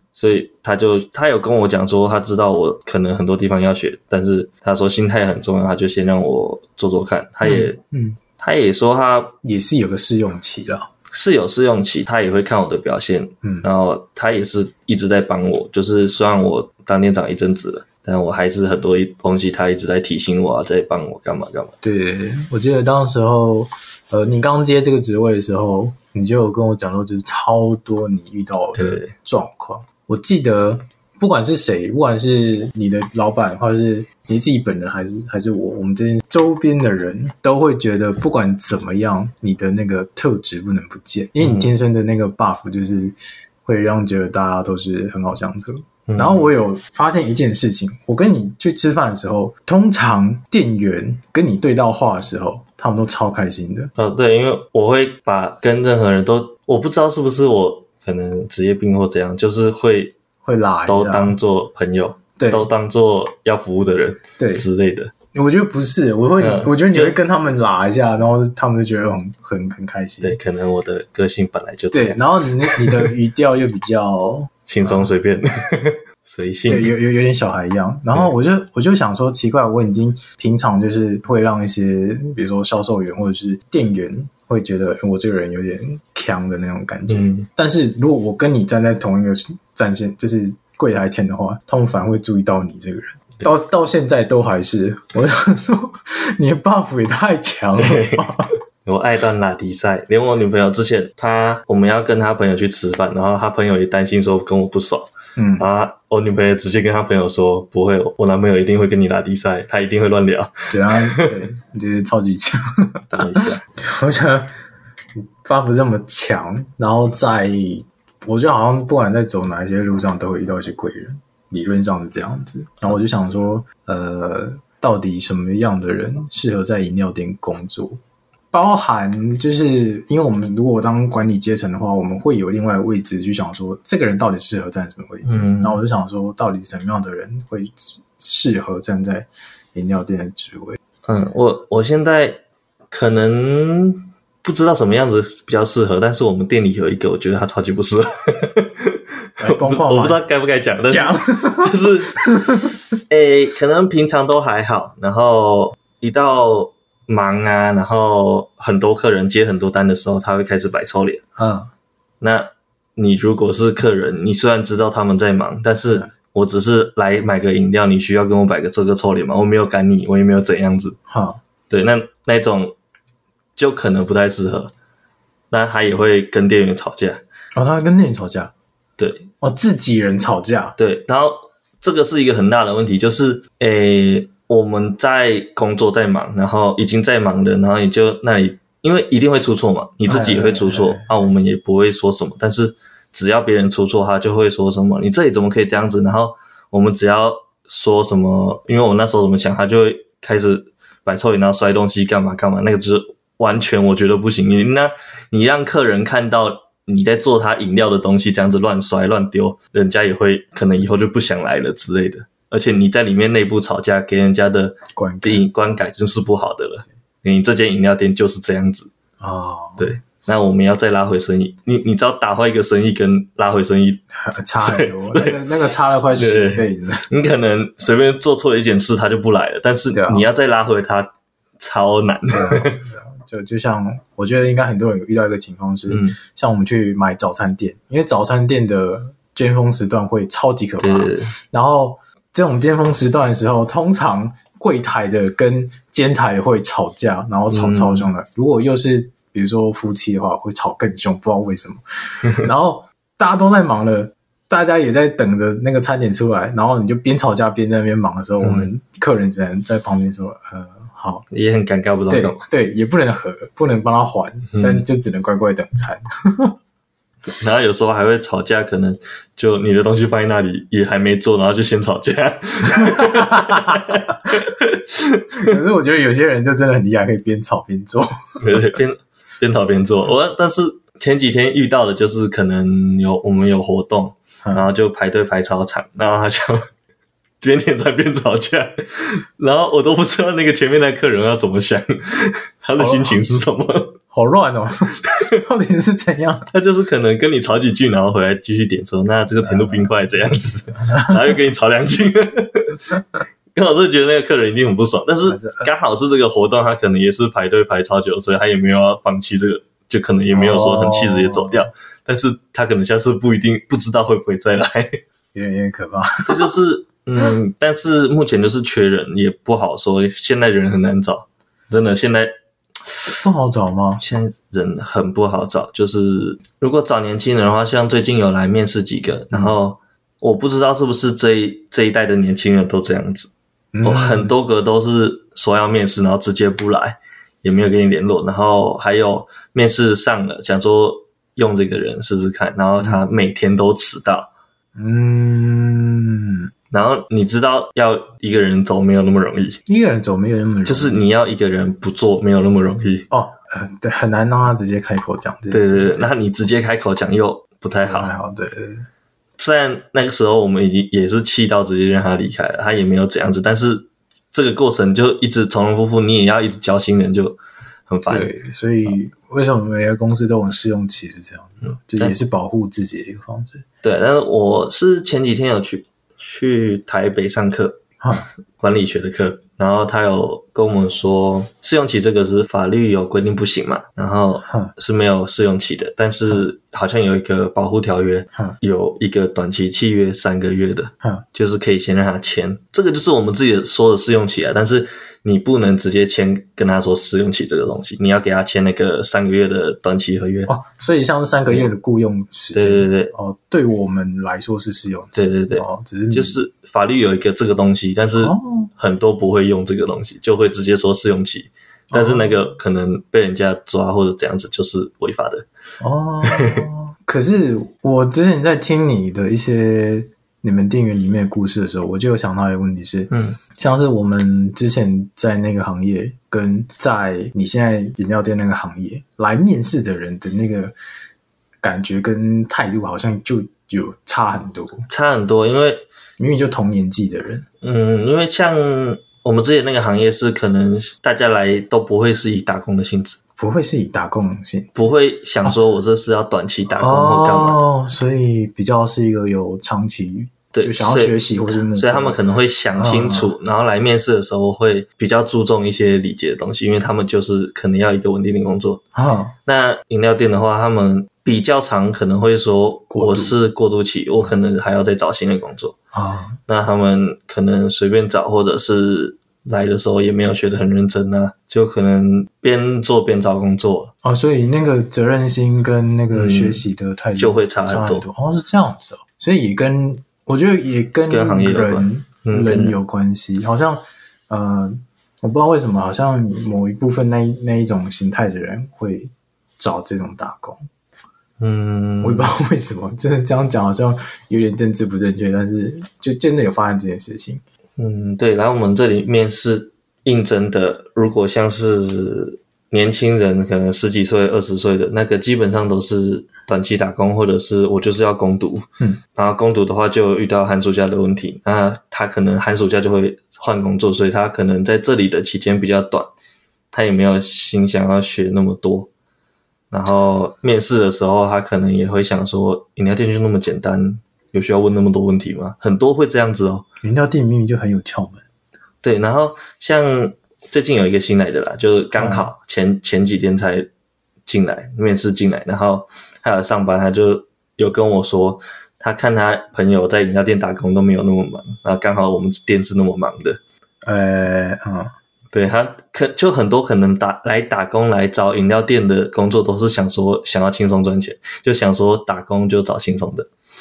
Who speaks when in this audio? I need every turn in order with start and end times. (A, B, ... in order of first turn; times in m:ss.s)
0:00.2-0:07.8 A
0:07.4-0:08.2 B
0:08.4-0:09.4 A
0:09.4-0:10.9 B
0:11.1-0:21.8 A
0:21.8-0:53.9 B
0:28.8-0:29.1 A
0:41.4-0:41.7 A
0:46.1-0:46.5 A
0:54.0-1:00.1 A
1:00.4-1:01.4 B
1:00.9-1:05.1 A
1:02.4-1:02.7 B
1:04.4-1:04.7 B
1:05.3-1:10.4 B
1:06.4-1:07.2 A
1:10.2-1:13.1 A
1:11.9-1:15.1 B
1:14.7-1:16.9 A
1:16.7-1:38.5 B
1:27.1-1:27.5 A
1:37.8-1:38.3 A
1:38.8-1:51.4 A
1:45.4-1:45.7 B
1:50.7-1:54.5 B
1:53.1-1:53.6 A
1:55.4-2:08.0 B
2:08.5-2:20.8 B
2:15.3-2:15.8 A
2:21.1-2:22.4 A
2:22.9-2:32.3 A
2:29.4-2:30.2 B
2:30.9-2:32.8 B
2:33.1-2:41.2 A
2:41.4-2:41.7 B
2:42.2-2:51.0 A
2:51.1-2:51.4 B
2:51.7-2:52.7 A
2:53.6-2:54.7 A
2:55.5-2:57.2 A
2:57.6-2:58.5 B
2:59.0-2:59.3 A
2:59.4-3:00.8 B
3:00.8-3:38.9 A
3:10.1-3:11.1 B
3:34.9-3:35.5 B
3:39.2-3:40.3 B
3:39.8-3:44.0 A
3:44.1-3:47.1 B
3:44.6-3:45.4 A
3:46.1-3:52.8 A
3:49.9-3:50.3 B
3:52.3-4:21.2 B
3:55.9-3:56.2 A
4:00.8-4:01.3 A
4:07.5-4:08.1 A
4:18.4-4:18.7 A
4:21.3-4:22.4 A
4:22.1-4:26.6 B
4:24.5-4:24.8 A
4:27.4-4:35.6 A
4:32.8-4:34.0 B
4:35.4-4:38.8 B
4:38.4-4:46.7 A
4:47.4-4:54.0 A
4:52.8-4:53.2 B
4:54.1-4:56.5 B
4:56.5-5:03.0 A
4:59.4-4:59.9 B
5:00.9-5:01.4 B
5:03.6-5:15.0 A
5:05.2-5:05.7 B
5:10.3-5:11.6 B
5:15.3-5:16.5 B
5:16.3-5:22.3 A
5:23.1-5:24.0 B
5:24.0-5:33.3 A
5:33.7-5:34.3 B
5:33.8-5:44.3 A
5:44.8-5:46.5 B
5:46.7-5:49.6 A
5:49.7-5:51.0 B
5:50.6-5:53.1 A
5:53.1-5:56.1 B
5:55.5-5:58.1 A
5:57.8-5:58.9 B
5:59.4-6:08.3 A
6:08.1-6:13.6 B
6:13.8-6:17.8 A
6:18.0-6:18.3 B
6:18.6-6:40.5 A
6:24.4-6:24.7 B
6:40.5-6:46.4 B
6:42.6-6:43.1 A
6:45.2-6:55.5 A
6:48.2-6:48.7 B
6:51.9-6:52.4 B
6:55.8-7:10.7 B
6:56.3-6:56.7 A
7:03.1-7:03.4 A
7:11.6-7:14.9 B
7:14.9-7:15.9 A
7:16.2-7:17.5 B
7:17.6-7:23.2 A
7:23.4-7:24.8 B
7:24.8-7:27.6 A
7:26.7-7:32.2 B
7:30.5-7:38.8 A
7:32.7-7:33.3 B
7:38.9-7:39.4 B
7:39.5-7:45.8 A
7:42.9-7:43.4 B
7:45.9-7:46.4 B
7:46.5-7:53.9 A
7:54.0-8:10.6 B
7:56.1-7:56.6 A
7:57.2-7:58.0 A
8:01.1-8:02.8 A
8:11.4-8:12.3 A
8:12.0-8:17.4 B
8:17.8-8:36.1 A
8:36.7-8:38.9 A
8:39.7-8:46.6 A
8:46.8-8:48.2 B
8:48.8-8:53.7 A
8:52.0-8:52.3 B
8:54.3-9:03.4 A
9:03.8-9:04.9 B
9:05.3-9:13.3 A